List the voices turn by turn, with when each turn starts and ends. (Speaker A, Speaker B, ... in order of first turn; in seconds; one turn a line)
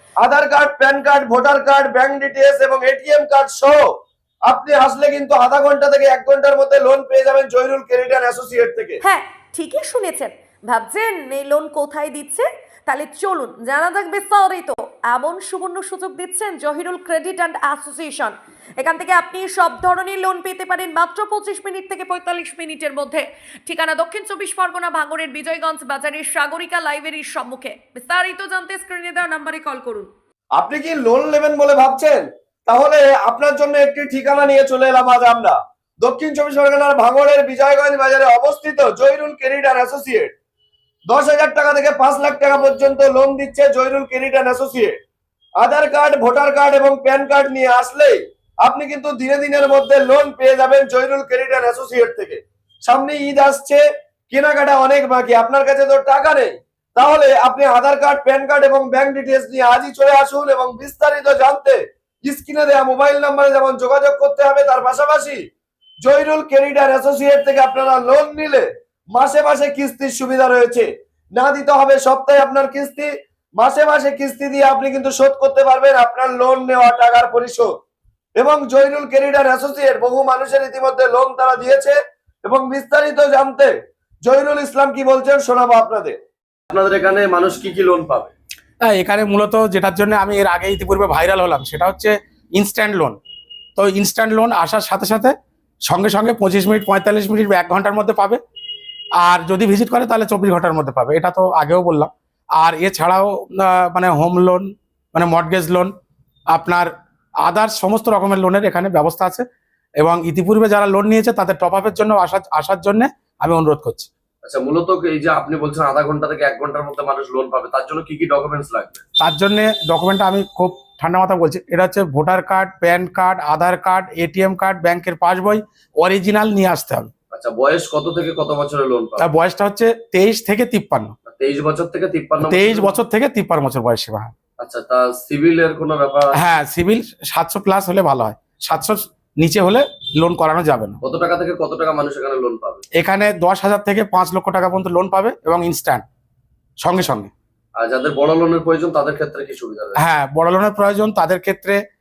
Speaker A: 0.2-3.8
Speaker A: 4.5-9.0
Speaker B: 9.0-30.1
Speaker A: 30.6-40.3
Speaker A: 41.1-45.0
Speaker A: 45.6-65.4
Speaker A: 66.0-77.7
Speaker A: 78.3-83.7
Speaker A: 84.2-86.2
Speaker C: 86.7-88.3
Speaker D: 88.8-93.2
Speaker D: 93.8-95.3
Speaker D: 95.9-98.4
Speaker D: 99.2-105.9
Speaker D: 106.5-106.9
Speaker D: 107.4-109.4
Speaker D: 110.0-114.1
Speaker C: 114.4-119.0
Speaker D: 119.2-127.1
Speaker C: 127.3-129.3
Speaker D: 129.2-131.1
Speaker C: 131.3-132.9
Speaker D: 132.4-134.3
Speaker C: 134.6-136.4
Speaker D: 136.3-141.0
Speaker C: 141.0-142.8
Speaker D: 142.9-146.1
Speaker D: 146.8-147.3
Speaker C: 147.8-150.0
Speaker D: 150.0-151.8